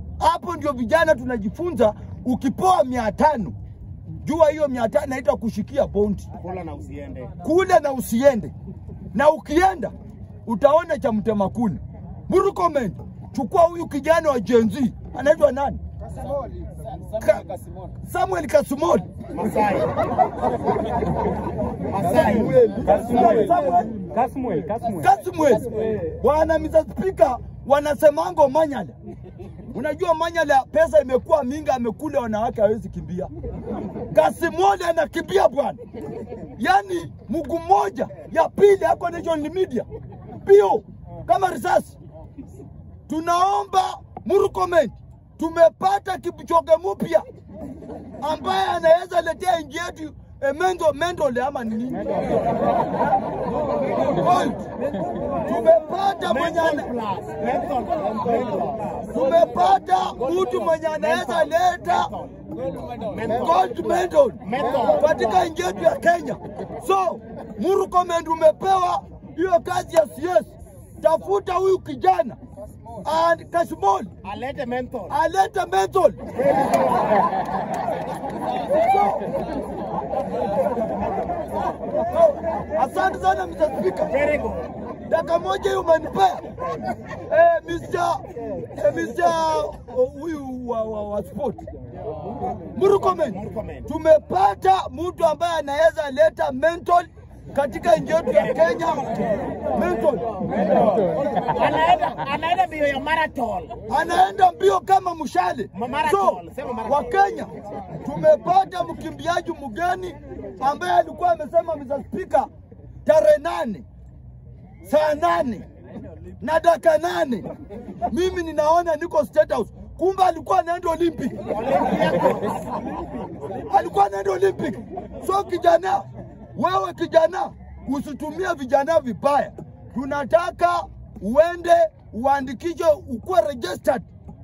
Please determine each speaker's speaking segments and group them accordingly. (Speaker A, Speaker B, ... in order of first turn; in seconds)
Speaker A: 0.2-3.5, 4.2-6.3, 7.4-8.5, 9.1-9.9, 10.5-15.8, 18.1-19.1, 22.0-24.0, 24.8-28.9, 29.7-33.3, 34.1-35.8, 36.6-39.9, 40.4-42.0, 43.1-47.2, 48.2-53.0, 54.0-54.7, 55.4-56.9, 59.1-62.1, 63.3-72.4, 73.0-74.1, 75.1-76.2, 78.7-79.3, 82.0-84.2, 85.1-86.5, 87.3-88.2, 88.8-91.7, 92.8-100.3, 103.9-112.5, 113.0-113.9, 114.8-115.7, 116.4-117.5, 118.1-121.4, 123.7-134.1
Speaker B: 6.4-7.3, 19.3-20.0, 21.9-23.1, 56.3-59.1, 60.9-63.6, 64.4-65.1, 74.2-75.1, 76.4-77.2, 84.1-84.7, 93.2-93.9, 101.2-103.8, 105.7-107.0, 121.5-122.8